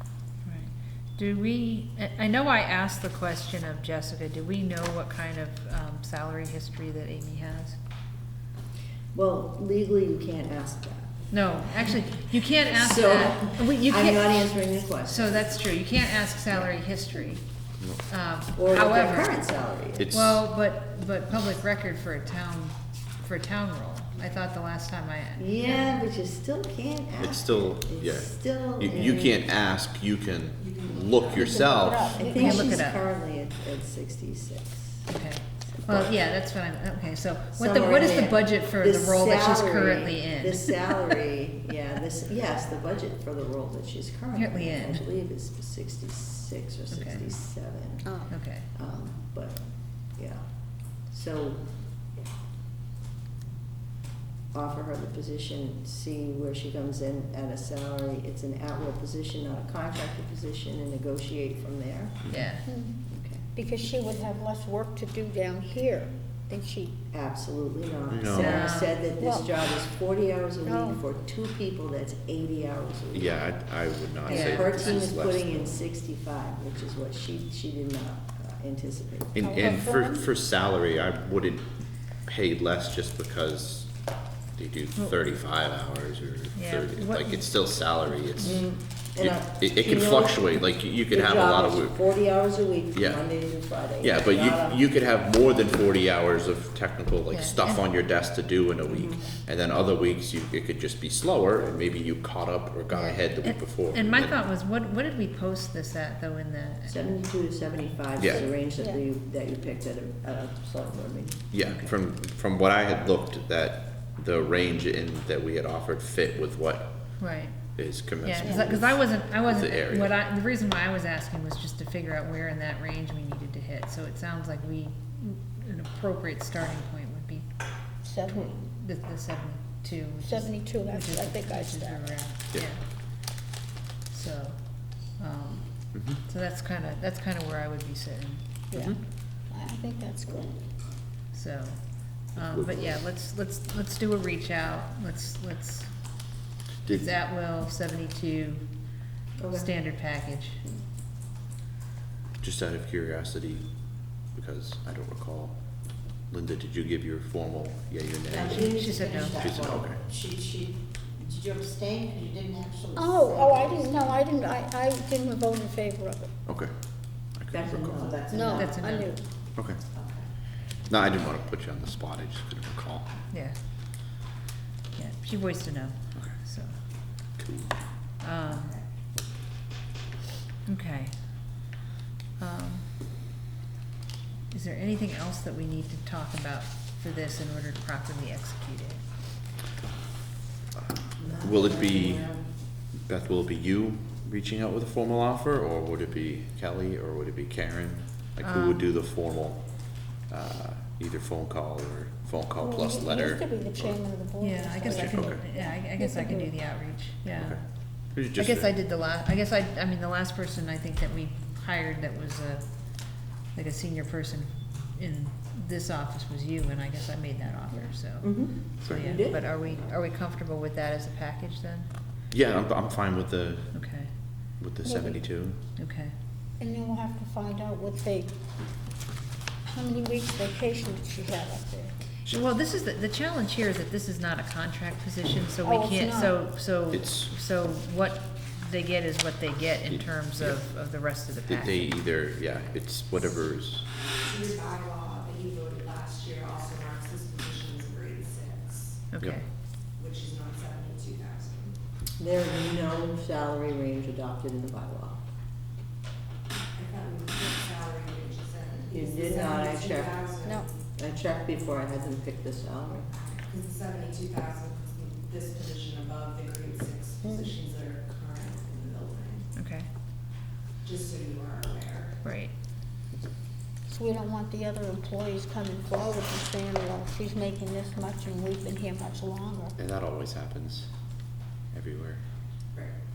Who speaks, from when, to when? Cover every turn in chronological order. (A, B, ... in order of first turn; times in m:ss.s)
0:00.4-0:07.8 A
0:09.1-0:11.3 B
0:11.3-0:17.4 A
0:12.7-0:15.5 B
0:18.1-0:19.4 A
0:18.6-0:20.1 B
0:20.0-0:20.4 C
0:20.1-0:26.0 A
0:25.4-0:29.4 B
0:27.2-0:32.2 C
0:30.9-0:31.2 D
0:31.3-0:32.8 E
0:32.1-0:35.1 B
0:32.3-0:33.0 A
0:35.1-0:41.2 A
0:35.9-0:36.1 C
0:37.6-0:49.6 B
0:44.3-0:45.0 A
0:46.9-0:47.2 A
0:48.0-0:48.3 E
0:48.3-0:48.7 A
0:50.1-0:50.4 B
0:51.0-0:51.7 B
0:54.5-1:02.3 B
1:02.3-1:02.6 A
1:02.6-1:03.0 E
1:03.1-1:03.4 B
1:03.6-1:07.0 E
1:07.1-1:13.4 B
1:08.1-1:08.7 C
1:08.3-1:08.9 A
1:09.2-1:09.4 E
1:10.7-1:11.0 E
1:13.1-1:15.8 C
1:14.2-1:19.5 B
1:14.3-1:15.0 A
1:19.3-1:21.7 C
1:19.4-1:20.3 E
1:22.2-1:23.9 C
1:24.6-1:28.6 C
1:26.6-1:27.4 A
1:28.4-1:28.6 A
1:28.4-1:34.8 B
1:29.2-1:32.0 C
1:32.9-1:33.2 C
1:34.0-1:44.4 C
1:37.3-1:37.8 A
1:38.9-1:39.2 B
1:43.4-1:47.0 A
1:46.9-1:51.9 B
1:48.2-1:48.4 C
1:51.5-1:57.0 C
1:57.2-1:57.6 A
1:57.8-2:00.1 C
1:58.2-2:07.5 A
1:58.4-1:58.7 E
2:08.0-2:08.5 E
2:08.2-2:12.8 A
2:10.2-2:12.2 E
2:14.1-2:18.5 A
2:15.9-2:16.2 C
2:18.7-2:19.0 E
2:18.7-2:19.0 C
2:19.5-2:20.6 E
2:21.3-2:21.8 A
2:22.3-2:25.9 A
2:22.4-2:23.0 C
2:26.9-2:28.7 A
2:29.4-2:29.7 B
2:29.5-2:30.6 A
2:32.4-2:33.7 C
2:34.3-2:35.6 C
2:36.3-2:38.7 C
2:38.3-2:40.7 B
2:38.5-2:39.4 A
2:39.3-2:40.0 C
2:41.3-2:43.9 B
2:42.9-2:46.3 E
2:46.5-2:46.7 C
2:47.4-2:48.2 C
2:47.5-2:48.8 B
2:48.3-2:49.2 E
2:48.4-2:49.1 A
2:50.9-2:53.1 C
2:54.9-2:56.7 A
2:57.4-2:57.8 C
2:58.2-2:58.7 A
3:00.7-3:01.2 A
3:02.4-3:02.9 A
3:04.5-3:09.0 A
3:10.8-3:12.2 C
3:11.2-3:12.4 B
3:13.0-3:19.6 C
3:18.4-3:18.8 A
3:20.3-3:24.0 C
3:22.6-3:26.5 E
3:24.4-3:27.6 A
3:24.8-3:25.4 C
3:28.1-3:28.7 C
3:28.3-3:32.6 A
3:33.5-3:41.9 A
3:38.2-3:39.4 B
3:42.3-3:43.7 C
3:43.7-3:44.1 A
3:44.6-3:45.6 C
3:44.8-3:45.2 E
3:45.8-3:46.1 A
3:46.6-3:48.3 E
3:49.7-3:51.9 E
3:52.3-4:01.9 A
3:55.6-3:56.3 E
3:56.9-3:57.3 C
3:59.9-4:00.6 C
4:01.5-4:03.8 C
4:04.3-4:08.8 D
4:09.1-4:09.4 A
4:10.0-4:11.7 D
4:12.2-4:15.2 B
4:16.8-4:20.5 D
4:18.9-4:20.3 B
4:20.4-4:20.7 E
4:20.9-4:23.1 B
4:23.3-4:29.4 D
4:27.2-4:27.6 E
4:29.5-4:29.9 A
4:30.8-4:32.1 D
4:32.2-4:32.5 A
4:33.9-4:39.8 E
4:39.8-4:40.9 C
4:41.7-4:42.2 C